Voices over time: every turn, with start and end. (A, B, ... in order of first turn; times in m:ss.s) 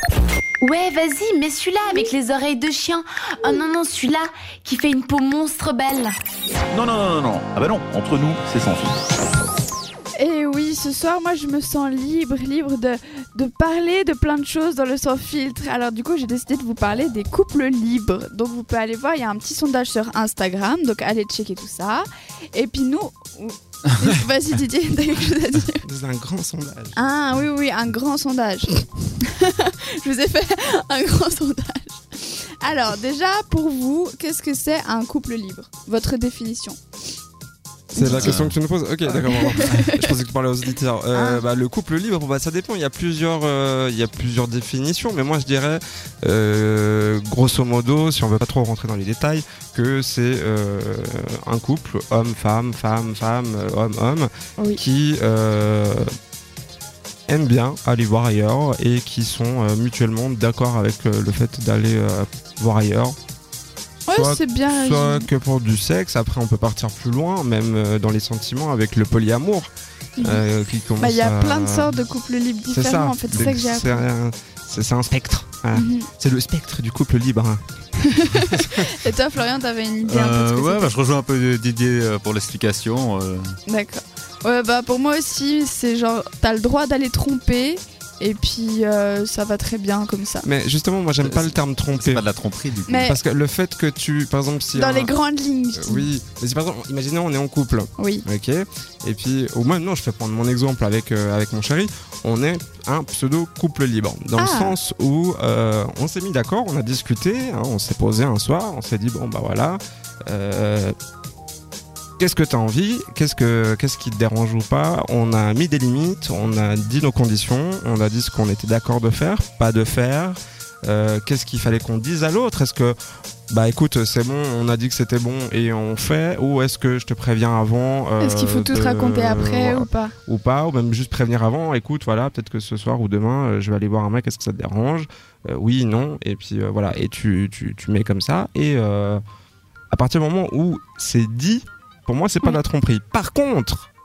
0:00.9-0:02.7 A
0:03.7-0:04.7 A
0:06.7-0:09.0 B
0:10.2-0:25.8 C
0:25.8-0:27.0 D
0:27.0-0:36.8 C
0:37.9-0:56.1 D
0:37.9-0:38.3 C
0:38.2-0:38.6 E
0:39.1-0:40.1 C
0:41.1-0:41.4 C
0:57.3-1:03.2 D
1:04.1-1:05.3 C
1:04.1-1:12.0 D
1:11.0-1:14.0 C
1:12.7-1:17.6 D
1:15.7-1:16.1 C
1:18.0-1:20.9 C
1:18.5-1:18.9 D
1:20.0-1:23.6 E
1:23.7-1:30.5 C
1:30.4-1:32.2 D
1:31.2-1:33.1 E
1:32.9-1:33.2 C
1:33.0-1:35.1 D
1:34.7-1:36.1 C
1:35.7-1:51.0 D
1:38.0-1:38.2 C
1:44.4-1:44.8 C
1:52.2-2:03.0 D
2:03.5-2:19.2 D
2:08.2-2:10.1 C
2:19.9-2:23.9 D